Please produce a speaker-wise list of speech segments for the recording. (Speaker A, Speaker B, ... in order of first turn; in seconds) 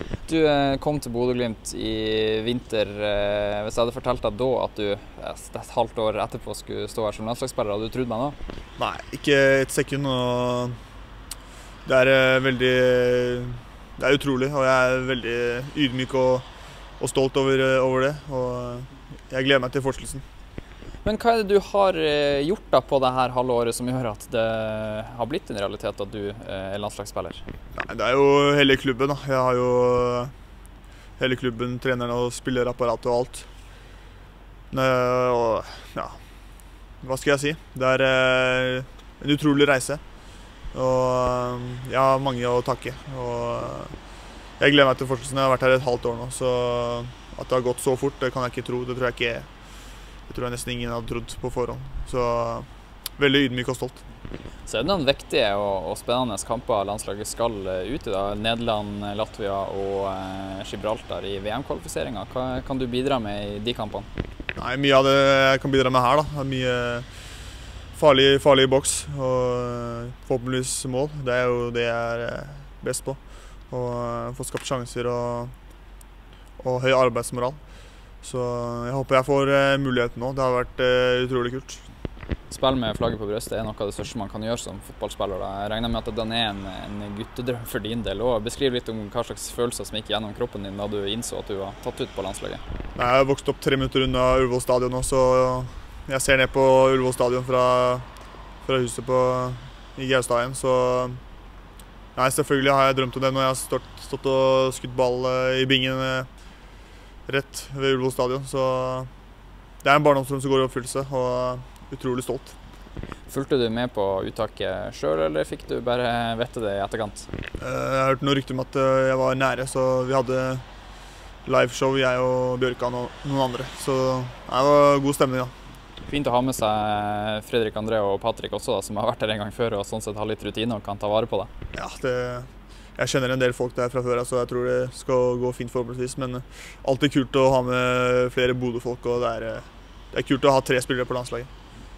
Speaker A: 0.3-8.4, 21.0-27.4, 54.7-64.1, 82.5-92.6, 113.3-117.3, 126.1-131.5
Speaker B: 8.8-10.8, 11.8-16.5, 17.0-20.2, 27.8-30.3, 31.2-33.5, 34.7-36.2, 37.0-40.0, 40.7-44.0, 44.6-49.5, 50.3-54.0, 64.6-67.1, 67.9-75.5, 76.6-77.6, 78.2-81.8, 93.0-98.1, 98.6-101.2, 102.2-106.3, 107.3-109.1, 109.8-112.5, 117.6-120.7, 121.4-125.5, 131.7-141.5